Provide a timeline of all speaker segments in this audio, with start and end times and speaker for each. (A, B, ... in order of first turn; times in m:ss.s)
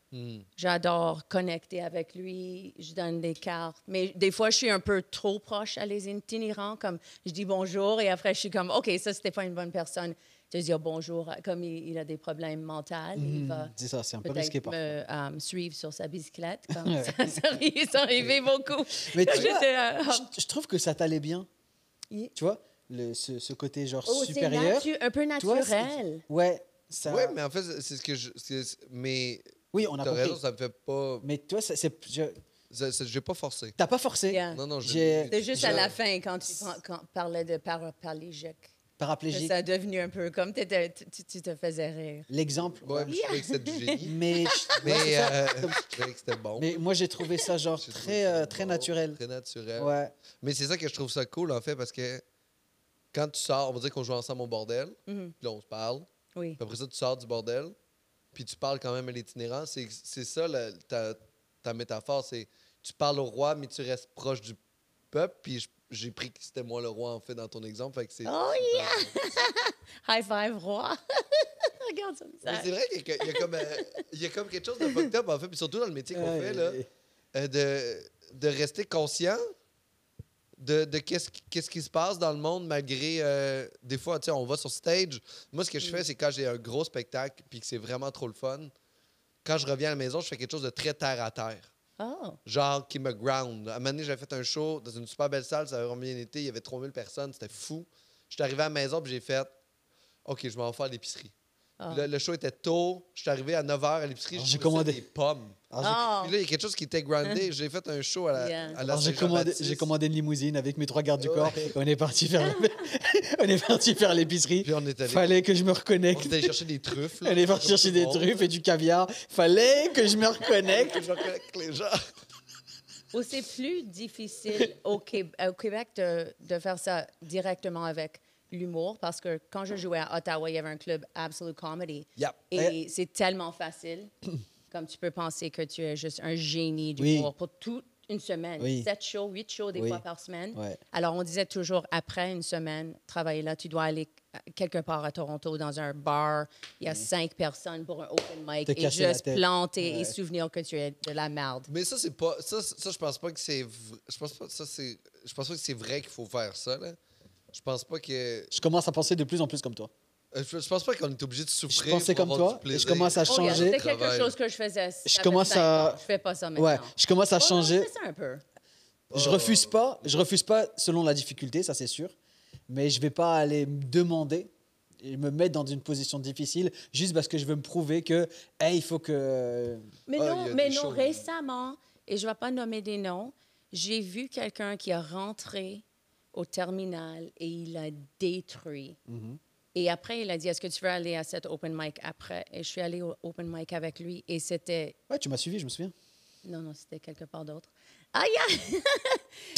0:00.1-0:00.5 A
0:00.6-0:13.7 B
0:13.2-0:14.8 C
0:14.2-0:20.3 B
0:16.7-0:17.2 C
0:19.1-0:21.5 C
0:22.4-0:27.4 C
0:24.1-0:26.2 B
0:27.0-0:31.3 A
0:29.7-0:30.4 C
0:31.2-0:32.4 C
0:32.7-0:33.8 A
0:33.8-0:35.9 C
0:34.3-0:34.6 B
0:34.5-0:36.0 A
0:35.3-0:38.7 B
0:39.0-0:39.6 C
0:39.3-0:42.3 B
0:42.3-0:43.2 C
0:42.8-0:44.2 A
0:43.1-0:44.8 B
0:44.0-0:45.8 C
0:44.8-0:46.7 A
0:46.6-0:49.2 C
0:47.8-0:52.2 A
0:49.8-0:50.1 C
0:53.1-0:56.1 A
0:55.1-0:55.3 B
0:56.6-0:57.8 A
0:58.3-1:04.6 A
1:05.1-1:09.1 A
1:08.2-1:14.0 B
1:12.4-1:16.8 A
1:14.8-1:15.1 B
1:16.1-1:16.9 C
1:17.3-1:19.4 A
1:20.6-1:28.7 A
1:29.4-1:31.7 A
1:32.0-1:32.4 B
1:32.4-1:39.5 A
1:40.3-1:41.3 A
1:41.8-1:42.1 B
1:41.9-1:45.6 A
1:44.4-1:45.0 C
1:45.7-1:46.1 C
1:45.8-1:46.3 B
1:46.2-1:49.9 A
1:48.4-1:48.8 B
1:48.9-1:56.6 C
1:51.2-1:51.8 A
1:52.4-1:52.7 B
1:54.6-1:55.4 A
1:56.1-1:58.4 A
1:57.2-2:01.0 C
2:00.6-2:02.1 A
2:03.1-2:14.1 B
2:14.7-2:31.7 B
2:17.0-2:17.3 C
2:18.6-2:18.9 C
2:19.8-2:20.0 C
2:20.5-2:20.8 C
2:28.7-2:30.2 C
2:31.7-2:37.0 A
2:37.5-2:38.5 A
2:38.5-2:39.9 C
2:40.3-2:44.3 A
2:41.7-2:43.8 C
2:43.3-2:48.4 B
2:45.1-2:46.0 C
2:46.6-2:47.9 C
2:49.1-2:49.7 A
2:49.1-2:52.1 C
2:52.7-2:54.5 C
2:55.0-2:59.9 C
3:00.1-3:05.8 B
3:00.2-3:01.2 A
3:06.3-3:09.0 B
3:09.1-3:09.4 C
3:09.7-3:15.0 B
3:15.1-3:15.9 C
3:16.4-3:19.2 B